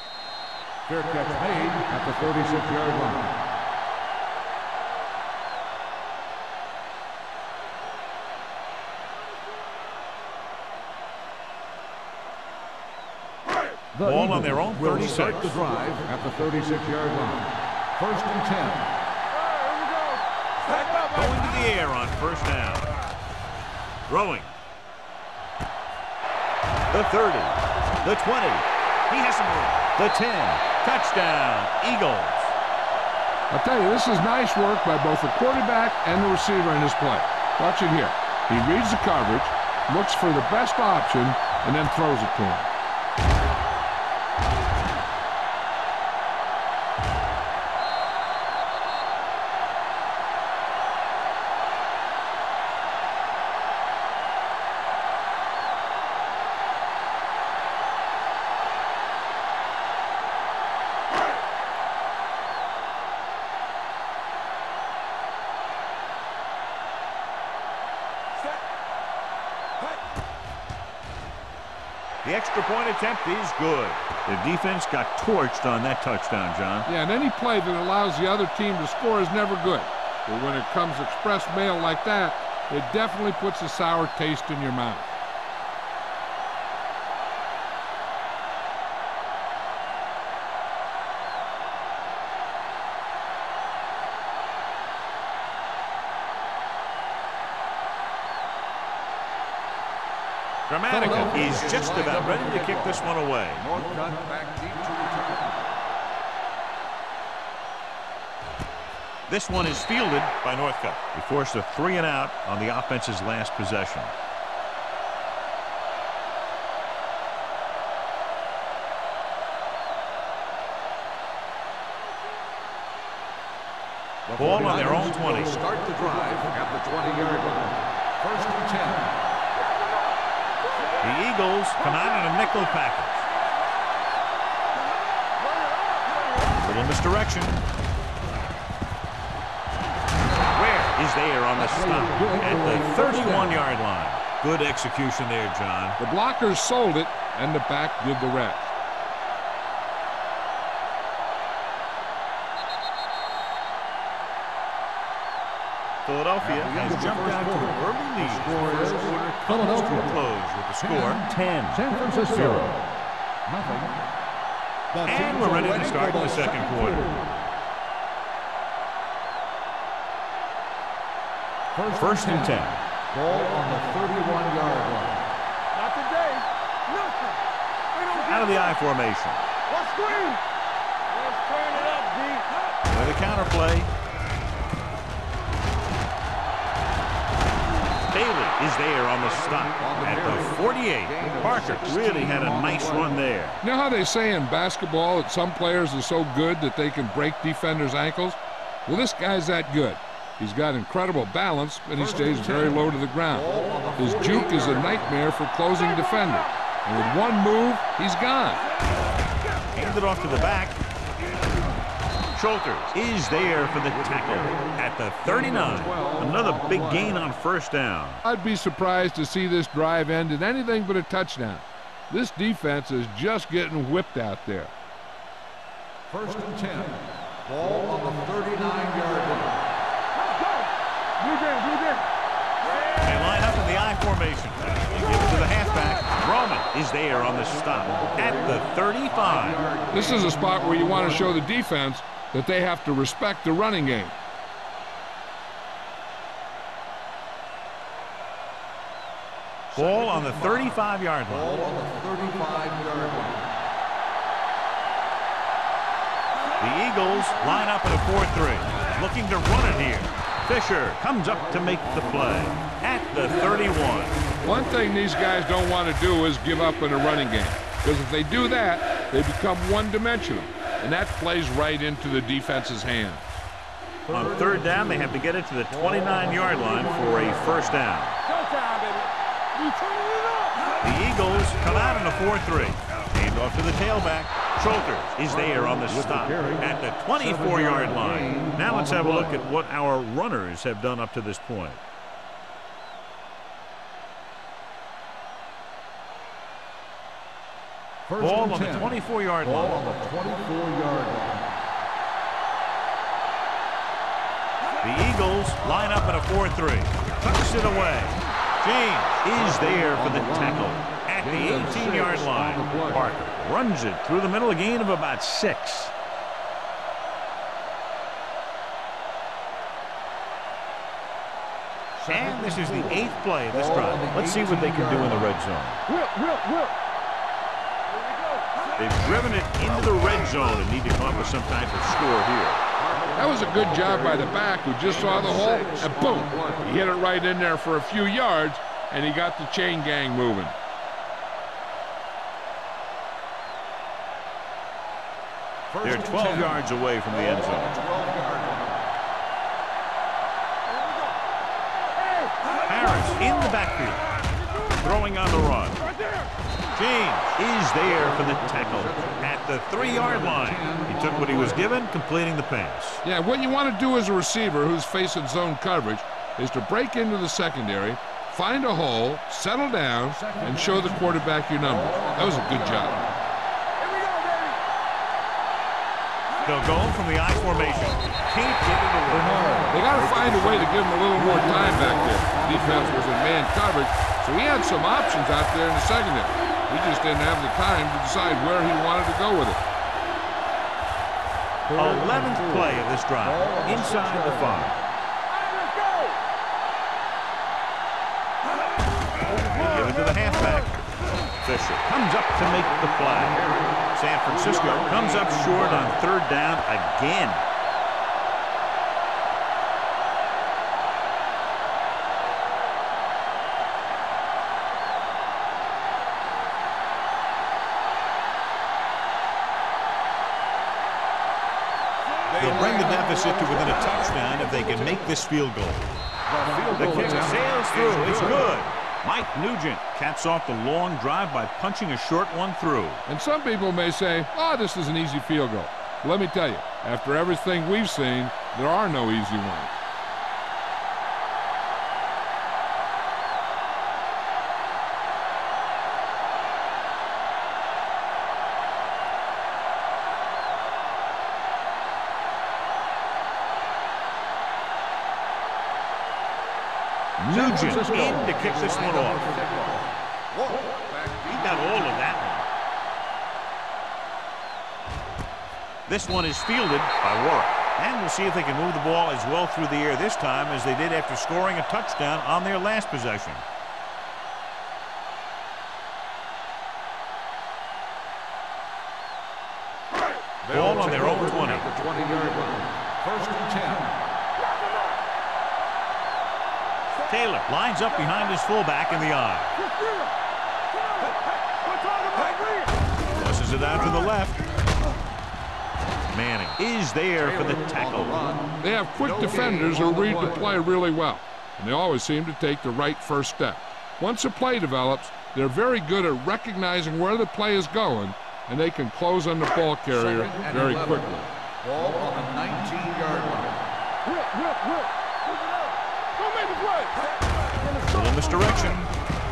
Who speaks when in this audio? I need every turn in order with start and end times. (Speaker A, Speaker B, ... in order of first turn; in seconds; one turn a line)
Speaker A: 0.9-3.3
Speaker A: 13.9-18.9
Speaker B: 14.0-15.6
Speaker C: 19.3-21.8
Speaker B: 21.1-22.9
Speaker B: 24.1-24.5
Speaker B: 26.9-32.5
Speaker D: 33.5-42.7
Speaker B: 72.2-76.9
Speaker D: 76.8-85.1
Speaker B: 100.7-103.7
Speaker A: 100.9-103.0
Speaker A: 103.5-105.7
Speaker B: 109.3-114.1
Speaker A: 124.3-129.1
Speaker B: 124.3-125.6
Speaker C: 129.5-131.2
Speaker B: 131.0-133.2
Speaker C: 131.8-134.8
Speaker C: 135.4-136.9
Speaker B: 136.6-137.6
Speaker B: 140.5-146.0
Speaker A: 141.5-143.6
Speaker D: 146.0-148.7
Speaker B: 156.0-161.8
Speaker A: 156.4-160.2
Speaker A: 160.8-162.8
Speaker A: 163.5-164.0
Speaker A: 164.9-167.2
Speaker B: 165.0-167.1
Speaker A: 171.7-175.2
Speaker B: 172.0-172.7
Speaker C: 175.7-177.4
Speaker C: 177.9-178.7
Speaker B: 178.2-179.4
Speaker C: 179.7-180.4
Speaker C: 181.1-182.6
Speaker B: 182.9-183.9
Speaker B: 188.1-193.6
Speaker A: 189.2-193.2
Speaker D: 193.6-208.6
Speaker A: 202.0-205.0
Speaker C: 205.7-206.5
Speaker B: 209.7-210.8
Speaker B: 212.3-218.2
Speaker A: 213.9-214.7
Speaker A: 215.2-217.2
Speaker D: 218.2-224.7
Speaker A: 226.1-229.7
Speaker C: 230.1-232.0
Speaker C: 232.6-233.6
Speaker B: 233.0-239.6
Speaker C: 234.9-236.1
Speaker A: 237.5-241.4
Speaker D: 239.9-244.2
Speaker B: 249.7-251.5
Speaker A: 249.7-250.6
Speaker A: 251.3-253.5
Speaker B: 256.6-264.2
Speaker A: 261.4-262.6
Speaker A: 263.3-264.5
Speaker D: 264.4-273.3
Speaker A: 274.1-275.1
Speaker B: 274.1-278.2
Speaker A: 275.7-277.8
Speaker C: 278.3-280.8
Speaker B: 280.8-291.8
Speaker A: 285.3-289.4
Speaker A: 298.1-298.9
Speaker B: 298.2-299.8
Speaker A: 299.4-301.5
Speaker B: 304.8-315.9
Speaker A: 309.4-313.1
Speaker A: 321.9-325.3
Speaker B: 322.1-325.8
Speaker C: 325.9-326.7
Speaker C: 327.9-328.8
Speaker B: 328.8-332.6
Speaker A: 332.8-336.8
Speaker D: 333.1-340.6
Speaker A: 345.7-348.8
Speaker B: 345.8-347.7
Speaker C: 350.7-351.2
Speaker C: 351.9-353.6
Speaker B: 352.7-354.0
Speaker C: 354.2-355.0
Speaker B: 354.8-355.9
Speaker C: 355.8-356.3
Speaker B: 356.7-363.0
Speaker A: 357.9-361.6
Speaker D: 363.0-373.0
Speaker A: 370.1-373.1
Speaker C: 373.8-374.6
Speaker B: 376.4-379.6
Speaker A: 379.1-383.0
Speaker D: 379.7-389.6
Speaker A: 391.7-394.7
Speaker B: 391.7-394.7
Speaker C: 395.3-396.2
Speaker C: 399.2-400.7
Speaker B: 399.5-400.7
Speaker B: 401.4-403.4
Speaker A: 402.6-405.9
Speaker B: 403.9-407.4
Speaker A: 422.3-423.8
Speaker B: 422.4-425.9
Speaker A: 426.3-428.5
Speaker B: 426.7-433.0
Speaker D: 433.1-439.8
Speaker B: 457.2-459.4
Speaker A: 457.3-462.2
Speaker B: 461.2-462.5
Speaker B: 465.9-473.4
Speaker A: 480.4-484.0
Speaker B: 480.5-481.7
Speaker C: 484.4-485.0
Speaker B: 487.1-489.5
Speaker C: 487.9-488.3
Speaker C: 489.5-490.1
Speaker C: 490.7-492.8
Speaker B: 493.1-494.4
Speaker C: 493.5-494.1
Speaker B: 496.1-498.2
Speaker A: 497.2-500.5
Speaker D: 498.6-511.3
Speaker A: 509.9-513.6
Speaker C: 514.0-518.8
Speaker B: 517.9-518.9